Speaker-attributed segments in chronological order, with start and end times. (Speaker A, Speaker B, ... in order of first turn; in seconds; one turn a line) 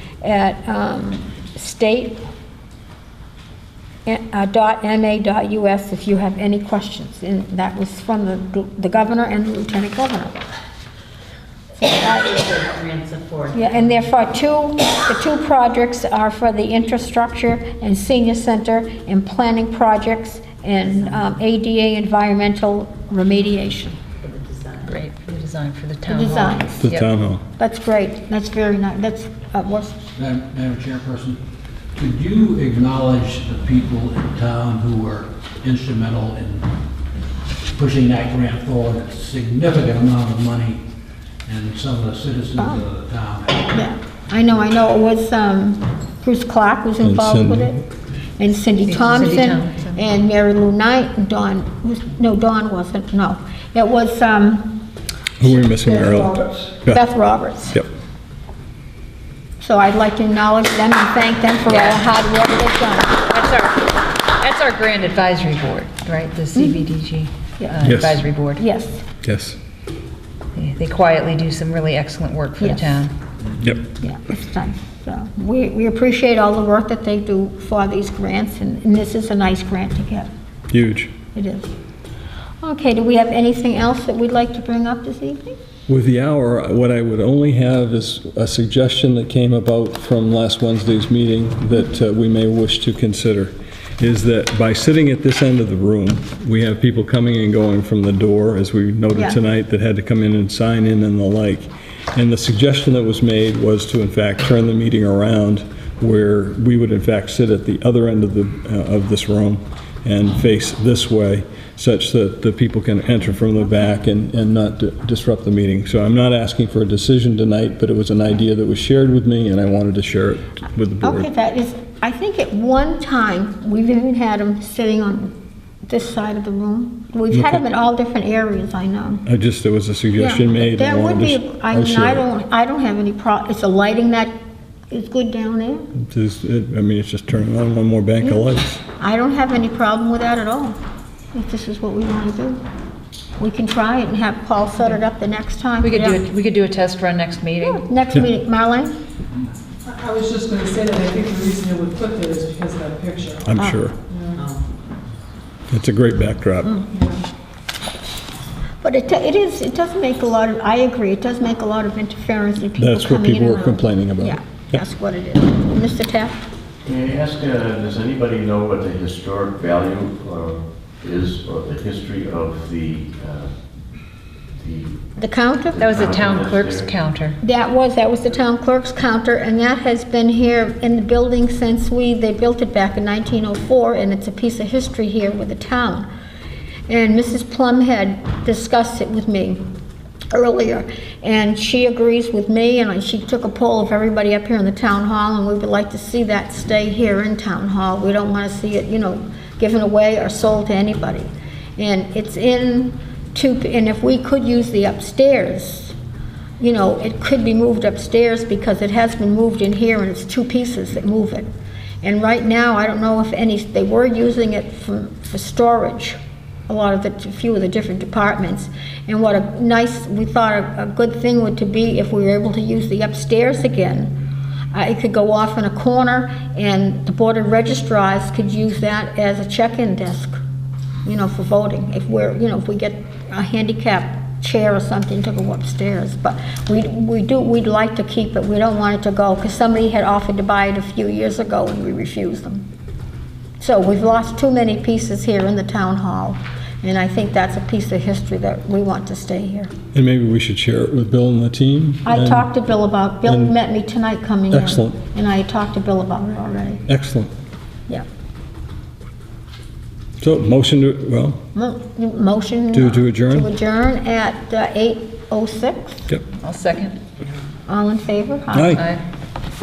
Speaker A: 0.2-2.2
Speaker A: 4.1-10.4
Speaker A: 11.8-12.4
Speaker B: 11.8-14.1
Speaker A: 13.5-24.0
Speaker B: 20.9-21.3
Speaker B: 24.2-25.0
Speaker C: 24.9-27.1
Speaker A: 26.1-26.9
Speaker D: 26.8-27.4
Speaker A: 27.6-29.9
Speaker E: 30.2-31.4
Speaker E: 32.0-36.7
Speaker E: 37.8-40.8
Speaker E: 41.5-43.7
Speaker A: 42.6-42.9
Speaker A: 43.7-47.8
Speaker D: 47.0-47.8
Speaker A: 48.4-54.8
Speaker C: 48.9-50.0
Speaker D: 55.4-57.0
Speaker A: 55.9-57.8
Speaker A: 59.6-63.2
Speaker C: 61.7-62.1
Speaker C: 63.2-68.6
Speaker A: 66.5-66.8
Speaker D: 67.8-68.2
Speaker A: 68.6-69.0
Speaker D: 69.2-69.6
Speaker C: 70.5-73.1
Speaker A: 72.6-73.0
Speaker A: 74.0-80.3
Speaker D: 80.7-81.1
Speaker A: 81.3-81.7
Speaker A: 82.6-85.6
Speaker D: 85.9-121.3
Speaker A: 99.1-99.4
Speaker A: 121.0-125.3
Speaker A: 125.9-129.2
Speaker D: 127.3-127.6
Speaker D: 129.3-132.2
Speaker A: 130.2-134.3
Speaker A: 134.9-135.9
Speaker D: 136.0-138.8
Speaker A: 139.0-140.8
Speaker A: 141.3-142.6
Speaker A: 143.4-146.2
Speaker C: 145.8-147.8
Speaker A: 147.6-148.9
Speaker F: 149.9-153.6
Speaker D: 153.5-154.0
Speaker F: 154.1-154.4
Speaker B: 154.3-154.6
Speaker D: 155.7-156.8
Speaker A: 158.8-166.4
Speaker D: 162.8-164.8
Speaker G: 166.8-173.5
Speaker G: 174.6-175.0
Speaker A: 175.2-175.8
Speaker G: 175.7-176.9
Speaker C: 175.8-177.4
Speaker A: 177.4-186.1
Speaker A: 186.9-189.6
Speaker A: 190.3-205.9
Speaker A: 206.6-211.5
Speaker A: 212.0-224.1
Speaker A: 224.7-230.4
Speaker A: 231.1-242.7
Speaker A: 243.6-249.7
Speaker D: 249.9-252.5
Speaker A: 252.1-256.8
Speaker D: 253.3-253.6
Speaker D: 254.5-255.0
Speaker D: 256.9-257.3
Speaker D: 260.2-261.4
Speaker A: 261.6-266.1
Speaker D: 262.7-263.5
Speaker C: 266.4-267.0
Speaker A: 267.7-268.8
Speaker D: 268.5-268.9
Speaker C: 268.7-269.0